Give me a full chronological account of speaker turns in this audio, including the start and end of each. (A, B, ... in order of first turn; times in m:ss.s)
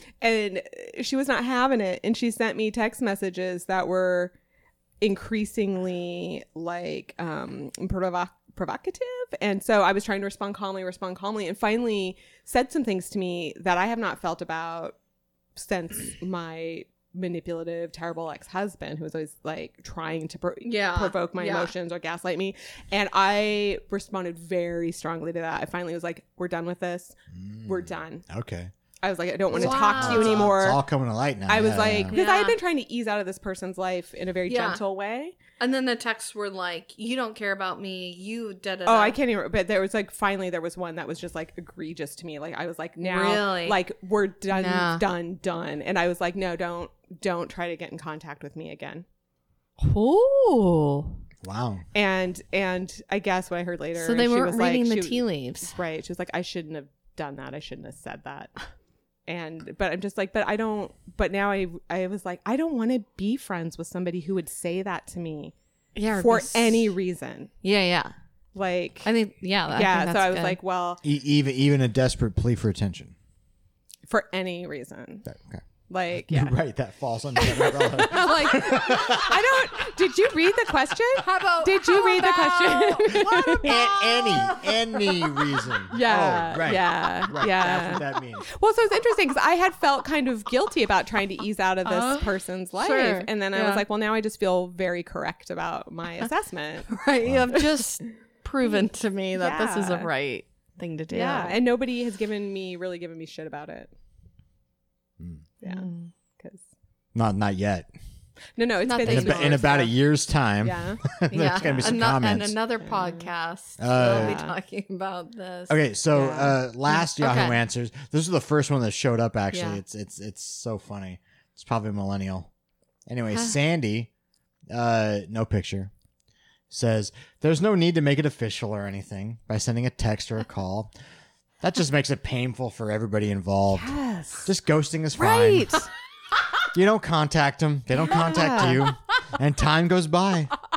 0:00.2-0:04.3 A
0:05.0-0:15.0 A
0:15.5-0:27.1 A
0:20.6-0:21.7 B
0:27.3-0:28.7 C
0:27.6-0:28.2 A
0:29.0-0:30.8 A
0:29.5-0:32.2 C
0:29.5-0:30.5 B
0:31.5-0:35.3 A
0:32.1-0:32.6 B
0:34.5-0:34.8 B
0:35.6-0:39.2 B
0:38.8-0:49.0 A
0:43.0-0:43.8 B
0:44.5-0:45.0 B
0:49.8-0:51.2 B
0:51.4-0:51.8 C
0:51.9-0:58.5 A
0:54.0-0:55.7 B
0:59.3-1:05.5 A
1:05.9-1:06.9 B
1:06.1-1:07.5 A
1:07.6-1:08.1 B
1:08.5-1:09.1 A
1:09.0-1:10.6 B
1:09.7-1:11.0 A
1:11.0-1:13.1 C
1:14.1-1:15.3 A
1:15.2-1:15.6 C
1:15.9-1:16.5 A
1:16.2-1:19.4 C
1:17.4-1:23.7 A
1:21.2-1:25.7 B
1:23.6-1:28.4 C
1:25.9-1:36.9 A
1:31.8-1:33.8 B
1:36.9-1:41.6 B
1:37.2-1:37.6 C
1:38.6-1:40.1 A
1:41.1-1:43.9 A
1:45.2-1:45.5 C
1:45.6-1:46.6 A
1:45.6-1:46.1 B
1:47.1-1:47.9 C
1:48.6-1:49.9 A
1:48.8-1:49.6 B
1:49.0-1:52.6 C
1:50.6-1:51.0 A
1:51.3-1:55.8 B
1:52.8-1:53.3 A
1:53.8-1:54.4 C
1:54.0-1:54.5 A
1:55.7-2:02.5 C
1:56.1-1:56.6 A
1:57.0-1:57.6 B
1:59.5-1:59.8 B
2:03.1-2:04.1 C
2:04.7-2:05.9 C
2:06.7-2:10.9 C
2:11.6-2:15.8 C
2:13.7-2:14.5 A
2:15.2-2:15.8 B
2:16.7-2:20.5 C
2:18.0-2:18.9 A